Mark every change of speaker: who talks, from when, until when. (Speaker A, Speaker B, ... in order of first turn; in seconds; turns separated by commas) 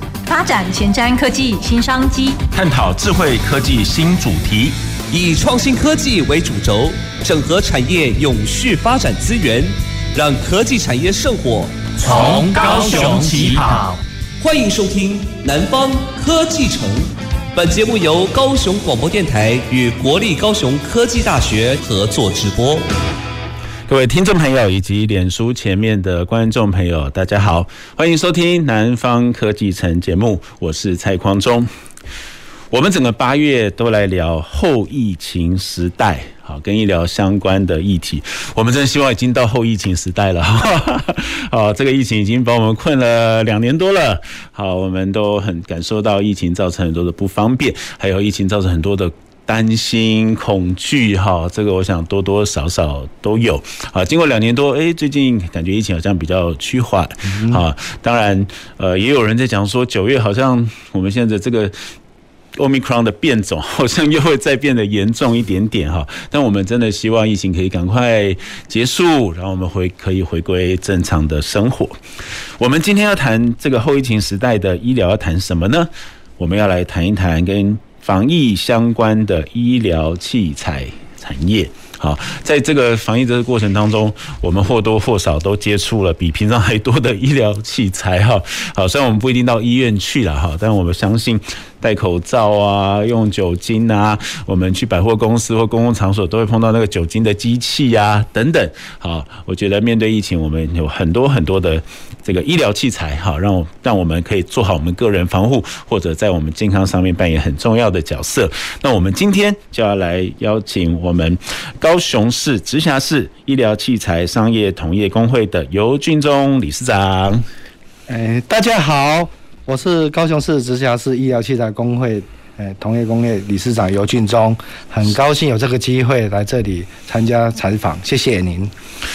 Speaker A: 0.3-2.4, Speaker B: 2.5-4.8, Speaker C: 5.1-13.6, Speaker D: 12.0-14.0, Speaker C: 14.4-22.9, Speaker B: 23.9-31.7, Speaker B: 32.7-61.7, Speaker E: 57.3-57.6, Speaker B: 62.5-72.0, Speaker B: 72.6-117.4, Speaker E: 118.1-128.7